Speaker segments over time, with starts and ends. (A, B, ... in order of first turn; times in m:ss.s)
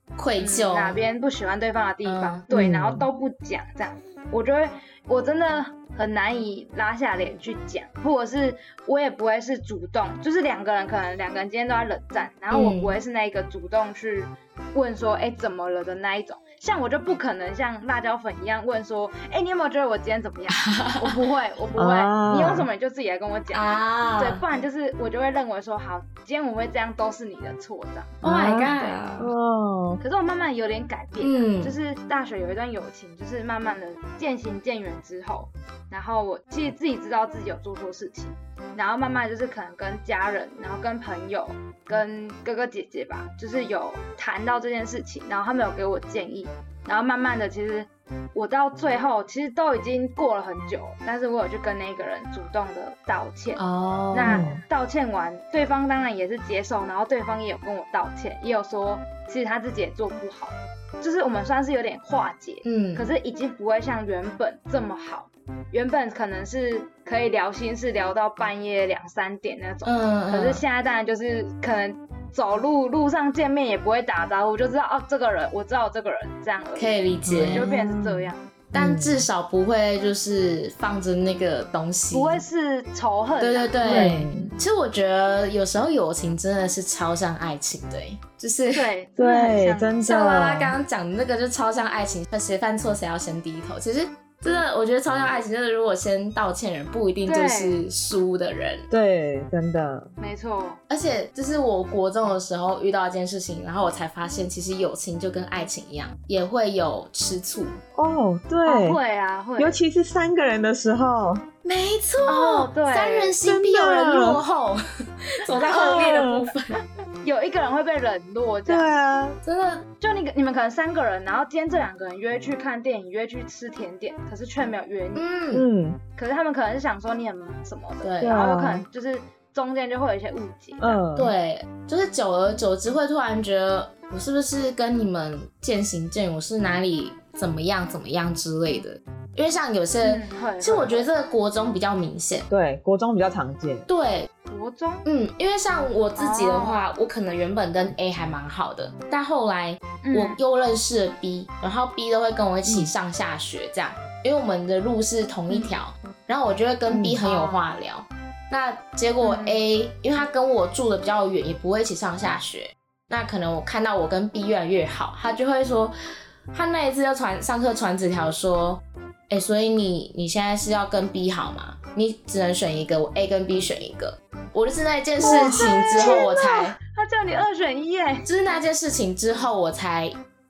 0:00.2-0:01.0 A
0:00.4-0:29.0 B
0:02.0-0:03.0 A
0:02.5-0:03.0 C
0:12.5-0:13.0 A
0:20.5-0:21.2 A
0:21.8-0:22.7 C
0:23.5-0:24.4 A
0:28.2-0:29.3 A
0:28.2-0:30.0 C
0:30.0-1:18.5 B
0:31.2-0:31.7 A
0:53.6-0:54.5 A
0:54.2-0:54.6 C
1:02.6-1:03.1 A
1:09.8-1:10.6 A
1:16.8-1:17.7 A
1:17.2-1:19.3 C
1:18.7-1:22.4 A
1:22.1-1:24.2 B
1:23.4-1:28.9 A
1:23.8-1:24.6 C
1:28.7-1:30.0 B
1:29.2-1:30.8 C
1:30.0-1:38.8 A
1:37.2-1:37.8 B
1:38.9-1:40.1 C
1:40.2-1:40.8 B
1:40.9-1:47.8 A
1:47.9-1:49.0 C
1:48.6-1:49.8 B
1:49.6-1:51.4 C
1:51.6-1:54.8 A
1:52.2-1:53.4 B
1:53.4-1:54.4 C
1:55.4-1:56.7 A
1:55.6-1:56.2 B
1:55.6-1:56.4 C
1:57.2-1:58.9 B
1:58.7-1:59.4 C
1:59.4-1:59.8 A
2:00.0-2:05.2 B
2:05.1-2:05.6 A
2:05.5-2:06.0 C
2:06.2-2:11.0 B
2:08.0-2:08.4 A
2:08.2-2:08.8 C
2:10.8-2:11.3 C
2:11.2-2:22.5 A
2:20.0-2:21.1 B
2:22.5-2:23.9 C
2:23.9-2:24.3 A
2:24.5-2:25.0 B
2:25.0-2:45.9 A
2:26.2-2:26.8 B
2:30.0-2:30.4 B
2:32.6-2:32.9 C
2:36.9-2:37.2 C
2:37.2-2:37.6 B
2:39.2-2:39.6 B
2:46.5-2:56.8 A
2:55.2-2:58.3 B
2:58.2-3:00.1 A